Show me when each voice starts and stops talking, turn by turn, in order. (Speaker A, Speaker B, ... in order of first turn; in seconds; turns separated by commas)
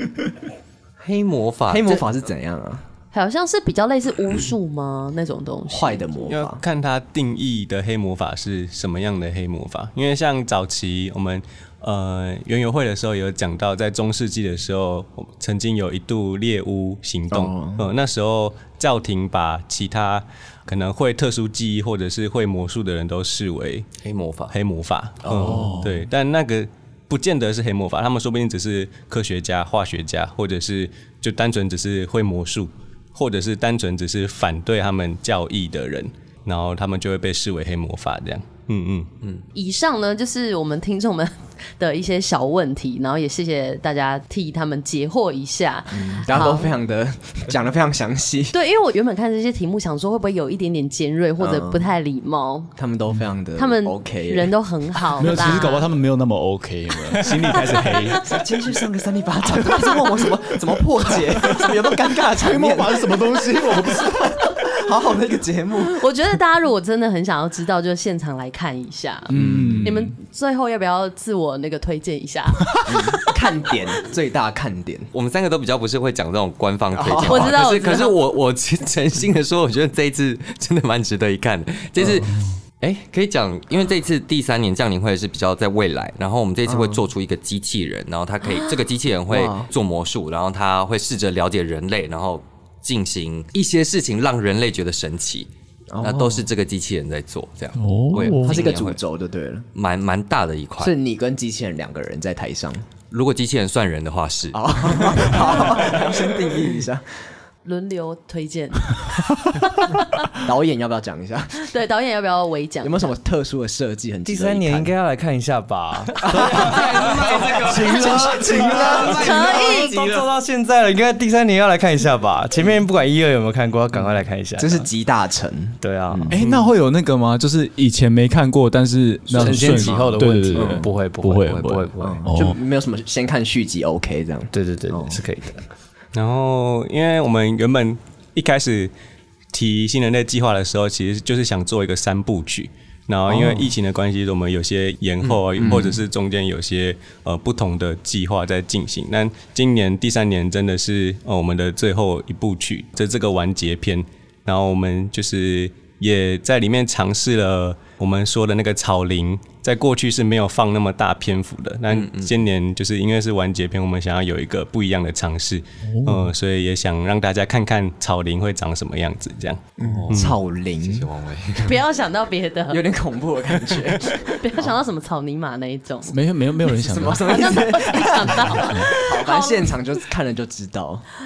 Speaker A: 1.0-2.0, Speaker B: 1.7-2.9, Speaker C: 3.1-6.3, Speaker B: 5.7-6.6, Speaker D: 6.3-23.9, Speaker B: 17.3-17.9, Speaker A: 24.0-24.5, Speaker D: 24.5-39.1, Speaker B: 25.3-25.7, Speaker E: 25.4-25.9, Speaker C: 39.5-46.7, Speaker B: 45.9-48.5, Speaker C: 48.5-52.7, Speaker B: 51.4-51.9, Speaker B: 52.8-54.5, Speaker C: 53.6-55.9, Speaker E: 55.2-58.3, Speaker C: 57.3-58.2, Speaker B: 58.2-66.0, Speaker E: 61.1-64.5, Speaker C: 65.9-69.3, Speaker E: 69.3-70.2, Speaker B: 69.3-69.9, Speaker C: 69.8-72.7, Speaker B: 72.8-75.1, Speaker A: 75.1-95.5, Speaker B: 76.9-77.7, Speaker C: 77.2-78.2, Speaker B: 82.0-82.3, Speaker B: 86.7-87.0, Speaker B: 89.3-89.7, Speaker B: 95.9-96.5, Speaker A: 96.0-99.0, Speaker E: 97.8-98.6, Speaker B: 98.3-99.7, Speaker A: 99.8-100.9, Speaker B: 100.8-102.8, Speaker A: 103.1-105.5, Speaker B: 104.5-107.1, Speaker C: 107.7-110.3, Speaker B: 110.3-111.6, Speaker C: 111.6-113.1, Speaker B: 112.8-114.9, Speaker F: 114.2-124.9, Speaker A: 116.2-120.3, Speaker B: 116.2-116.9, Speaker B: 117.7-119.3, Speaker C: 119.1-119.9, Speaker B: 124.6-126.4, Speaker F: 125.8-126.5, Speaker E: 126.3-132.6, Speaker F: 129.3-132.3, Speaker B: 129.3-130.9, Speaker B: 132.0-135.2, Speaker F: 134.5-135.6, Speaker D: 136.1-138.9, Speaker D: 139.5-170.4, Speaker B: 143.3-143.6, Speaker B: 145.6-146.0, Speaker A: 161.9-162.4, Speaker E: 165.8-166.3, Speaker B: 169.8-171.1, Speaker A: 169.9-171.8, Speaker C: 171.6-172.8, Speaker B: 172.7-174.6, Speaker C: 174.0-176.2, Speaker E: 176.1-177.6, Speaker B: 176.7-181.1, Speaker C: 177.3-179.7, Speaker E: 178.3-178.9